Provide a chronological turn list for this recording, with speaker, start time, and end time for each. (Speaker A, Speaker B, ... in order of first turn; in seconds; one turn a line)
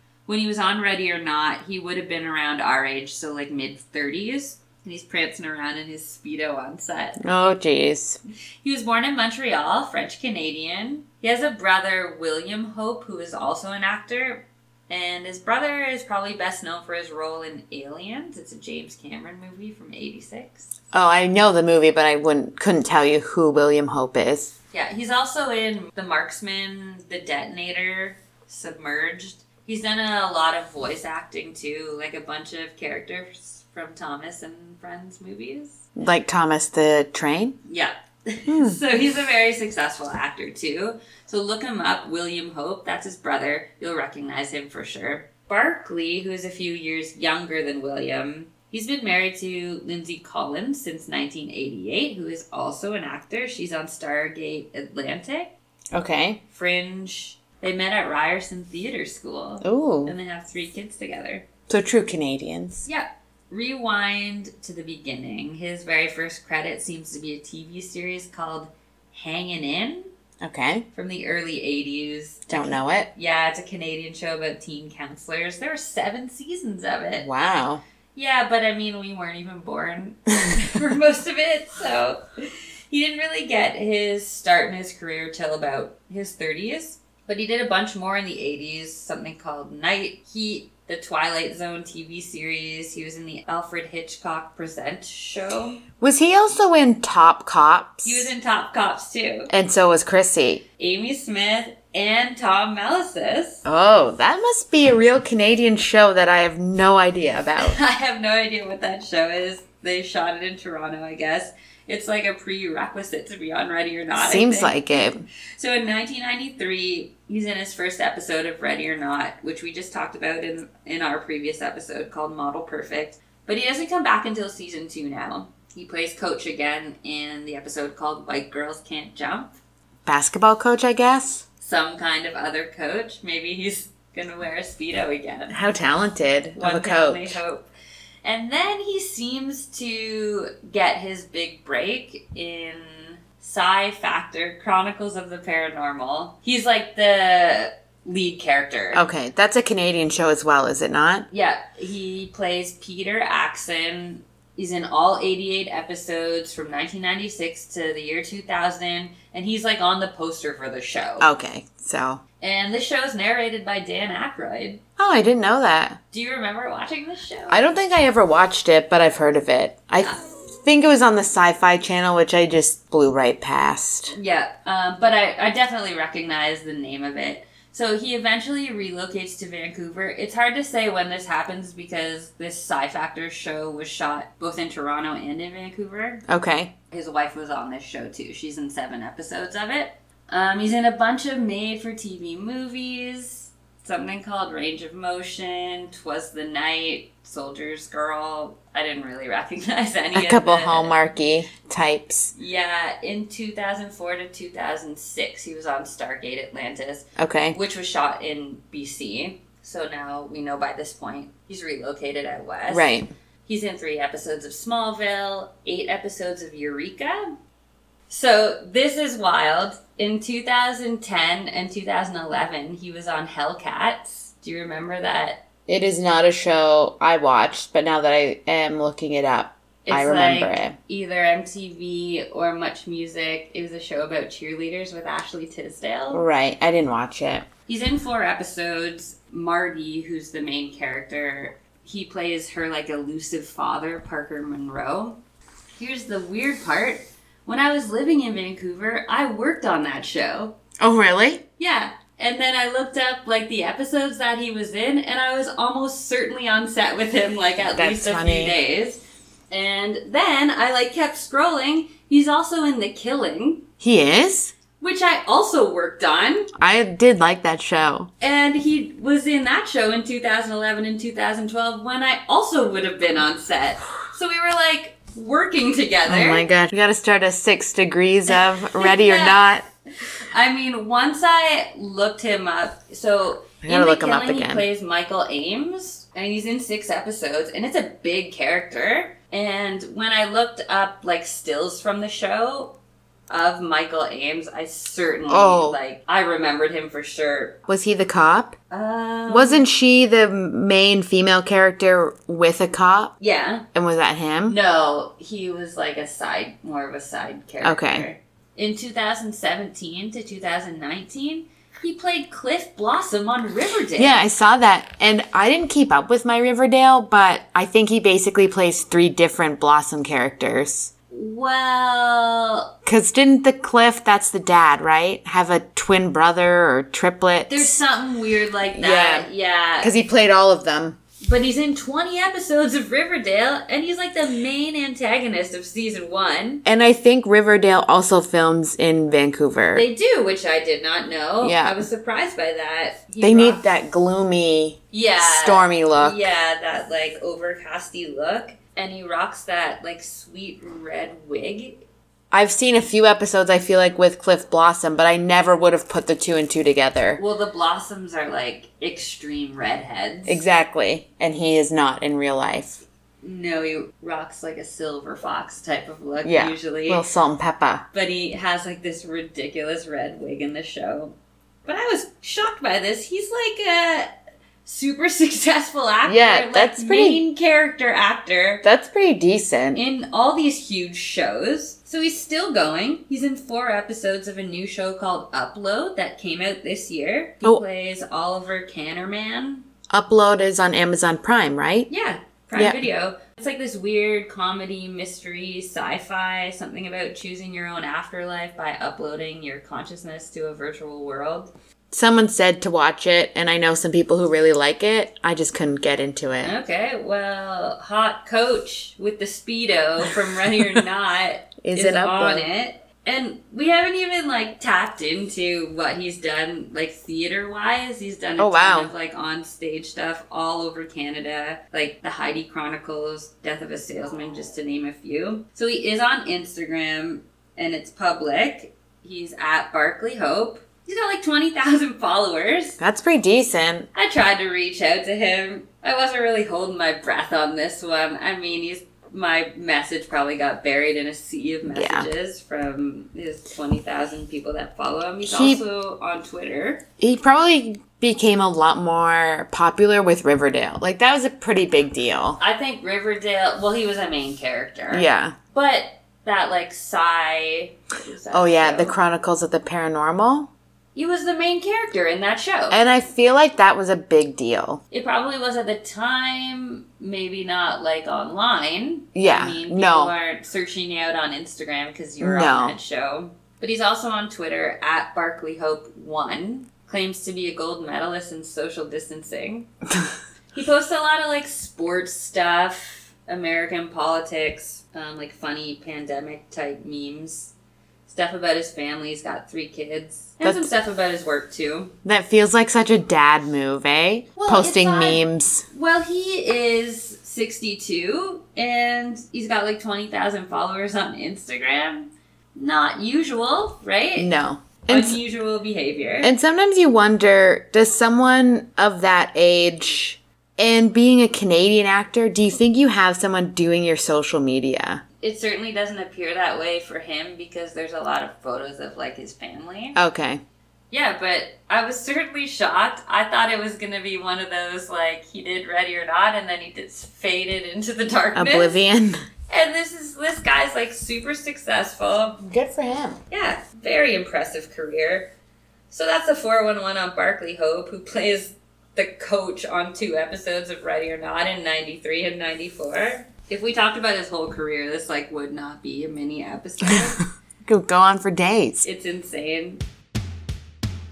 Speaker A: 0.3-7.2
Speaker B: 7.2-8.2
Speaker A: 8.6-20.7
Speaker B: 20.9-24.5
Speaker A: 24.7-35.8
Speaker B: 36.0-37.6
Speaker A: 37.7-55.5
Speaker B: 38.5-38.8
Speaker B: 55.9-56.4
Speaker A: 56.5-61.5
Speaker B: 59.6-60.1
Speaker B: 61.7-62.9
Speaker A: 62.9-70.1
Speaker B: 70.4-70.9
Speaker A: 70.9-77.3
Speaker B: 72.5-73.1
Speaker B: 77.2-77.8
Speaker A: 78.2-95.8
Speaker B: 96.0-98.3
Speaker A: 98.0-99.5
Speaker B: 99.5-100.6
Speaker A: 100.8-103.6
Speaker B: 103.7-107.8
Speaker A: 107.6-129.5
Speaker B: 114.2-115.2
Speaker B: 130.1-131.4
Speaker A: 131.6-135.6
Speaker B: 135.5-137.4
Speaker A: 136.6-137.7
Speaker A: 138.2-149.1
Speaker B: 148.9-151.3
Speaker A: 151.3-161.3
Speaker B: 161.2-162.2
Speaker A: 162.4-164.8
Speaker B: 165.0-166.0
Speaker A: 166.1-167.6
Speaker B: 167.5-174.2
Speaker A: 174.1-186.2
Speaker B: 186.3-186.7
Speaker A: 186.9-201.0
Speaker B: 200.2-202.3
Speaker A: 202.3-217.3
Speaker B: 207.2-207.6
Speaker B: 212.7-213.1
Speaker A: 218.1-225.4
Speaker B: 225.7-230.8
Speaker A: 229.9-236.2
Speaker B: 236.1-237.5
Speaker A: 237.7-245.2
Speaker A: 245.8-250.6
Speaker B: 250.8-251.4
Speaker A: 251.6-263.7
Speaker B: 257.7-258.6
Speaker B: 263.8-264.5
Speaker A: 264.8-266.5
Speaker B: 266.6-268.1
Speaker A: 268.2-276.5
Speaker B: 276.1-279.6
Speaker A: 278.3-292.8
Speaker B: 283.6-284.7
Speaker A: 293.3-297.6
Speaker B: 295.3-295.8
Speaker B: 297.7-298.6
Speaker A: 298.7-299.6
Speaker B: 299.3-303.1
Speaker A: 303.2-303.7
Speaker B: 303.7-304.6
Speaker A: 304.5-314.2
Speaker B: 307.6-308.1
Speaker B: 314.0-320.9
Speaker A: 321.1-322.7
Speaker B: 322.9-327.7
Speaker A: 327.5-329.9
Speaker B: 328.8-329.3
Speaker B: 329.8-331.0
Speaker A: 331.2-336.6
Speaker B: 336.6-339.9
Speaker A: 339.7-343.7
Speaker B: 341.4-341.9
Speaker B: 343.2-346.3
Speaker A: 344.9-351.8
Speaker B: 352.3-357.2
Speaker A: 357.2-360.4
Speaker B: 360.3-362.8
Speaker A: 363.2-367.1
Speaker B: 366.2-367.9
Speaker A: 367.9-371.1
Speaker A: 371.7-378.6
Speaker B: 376.1-377.2
Speaker B: 378.6-379.8
Speaker A: 379.7-389.6
Speaker B: 389.9-391.9
Speaker A: 391.9-401.5
Speaker B: 392.6-392.9
Speaker B: 401.9-406.6
Speaker A: 406.4-432.8
Speaker B: 411.6-412.5
Speaker B: 418.4-418.9
Speaker B: 432.8-433.9
Speaker A: 433.9-446.8
Speaker B: 441.7-442.1
Speaker B: 445.2-445.6
Speaker B: 447.0-452.4
Speaker A: 452.4-459.0
Speaker B: 454.9-455.4
Speaker B: 458.3-460.5
Speaker A: 460.9-462.8
Speaker B: 462.7-464.8
Speaker A: 464.9-479.7
Speaker B: 469.1-470.1
Speaker B: 472.2-472.8
Speaker A: 480.5-487.5
Speaker A: 488.1-491.9
Speaker B: 490.4-490.7
Speaker B: 492.1-495.6
Speaker A: 494.4-504.3
Speaker B: 504.2-505.2
Speaker A: 504.9-506.3
Speaker B: 506.2-515.0
Speaker A: 515.2-520.0
Speaker B: 520.0-520.4
Speaker A: 520.9-528.8
Speaker B: 528.4-529.2
Speaker A: 529.5-532.4
Speaker B: 532.4-533.2
Speaker A: 533.3-535.3
Speaker A: 535.9-547.2
Speaker B: 547.7-548.9
Speaker A: 548.8-549.8